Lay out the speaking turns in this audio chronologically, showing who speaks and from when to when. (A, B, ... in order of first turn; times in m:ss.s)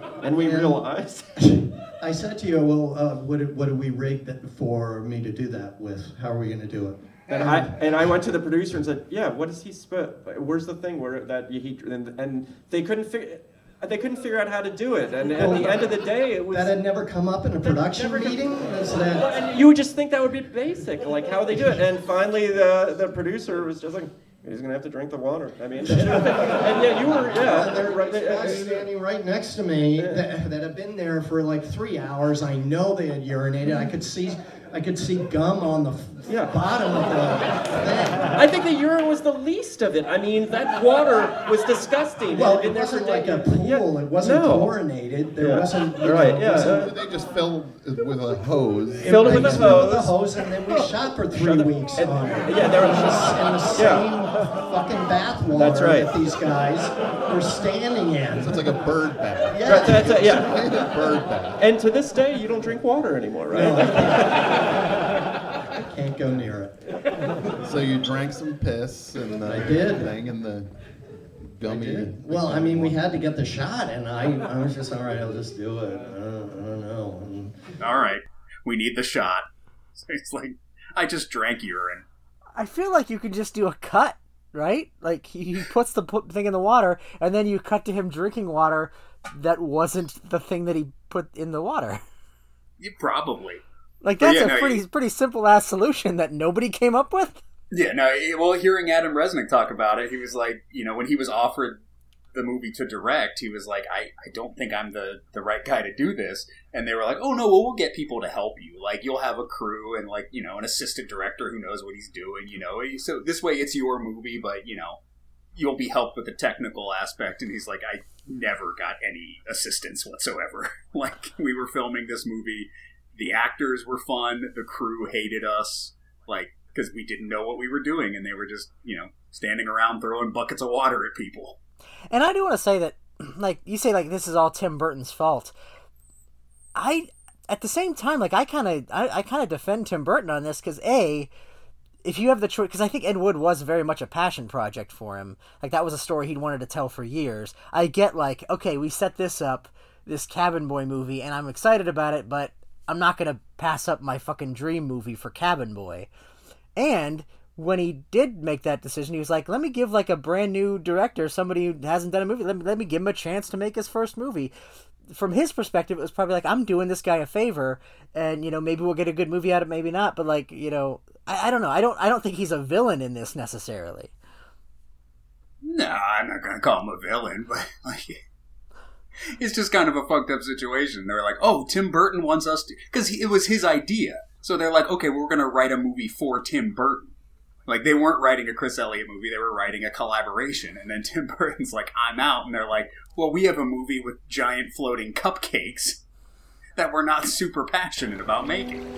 0:00.2-0:01.3 A
0:00.4-0:00.8 B
0:01.4-0:08.1 B
0:07.3-0:16.8 A
0:15.2-0:15.9 B
0:16.5-0:19.4 B
0:17.6-0:28.8 A
0:25.8-0:38.6 B
0:36.3-0:36.6 A
0:38.3-0:44.7 A
0:42.3-0:46.9 B
0:45.4-0:46.9 A
0:46.5-0:50.1 C
0:49.0-0:50.1 A
0:49.0-1:00.4 B
0:51.3-0:54.1 A
0:55.5-0:56.1 A
0:58.4-1:01.6 C
0:59.6-1:00.5 A
1:01.6-1:04.5 A
1:03.5-1:04.6 B
1:05.8-1:06.8 B
1:07.6-1:10.7 C
1:09.5-1:10.1 B
1:11.5-1:13.0 C
1:11.6-1:17.6 B
1:17.8-1:22.0 D
1:22.6-1:32.0 E
1:32.8-1:33.6 D
1:34.0-1:37.4 E
1:34.2-1:34.8 D
1:37.7-1:41.8 D
1:42.3-1:55.0 D
1:55.5-2:11.6 D
2:12.1-2:15.5 E
2:16.7-2:21.3 E
2:22.0-2:36.1 E
2:36.8-2:44.5 E
2:45.1-2:54.1 E
2:55.6-2:58.2 D
2:59.4-3:07.1 D
3:07.7-3:16.0 D
3:16.8-3:18.8 D